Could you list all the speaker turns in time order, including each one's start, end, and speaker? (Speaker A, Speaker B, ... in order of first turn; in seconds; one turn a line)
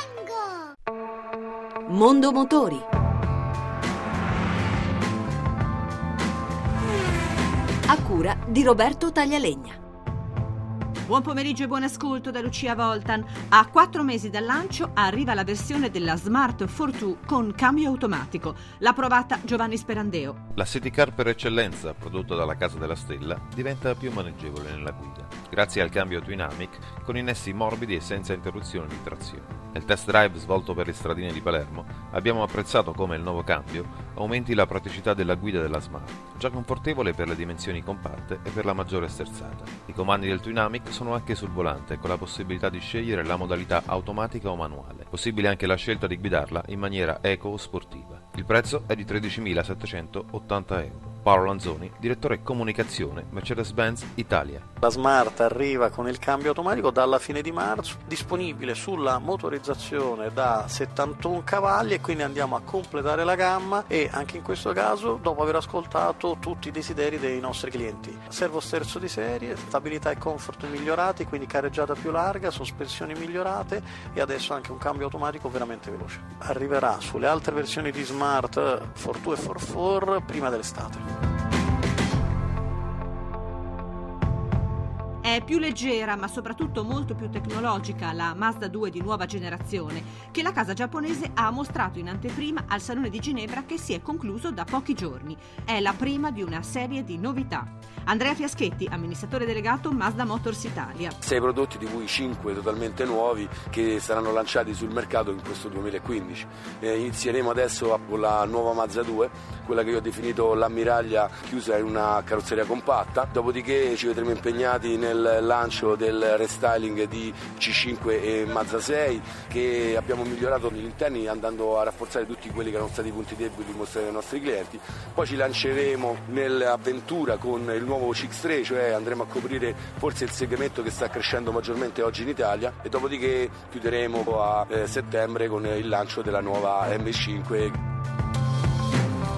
Speaker A: 1.9-2.8
Speaker A: 7.9-9.8
Speaker B: 11.1-20.4
Speaker C: 20.6-54.7
Speaker D: 54.8-81.0
Speaker B: 85.2-101.2
Speaker E: 101.2-137.8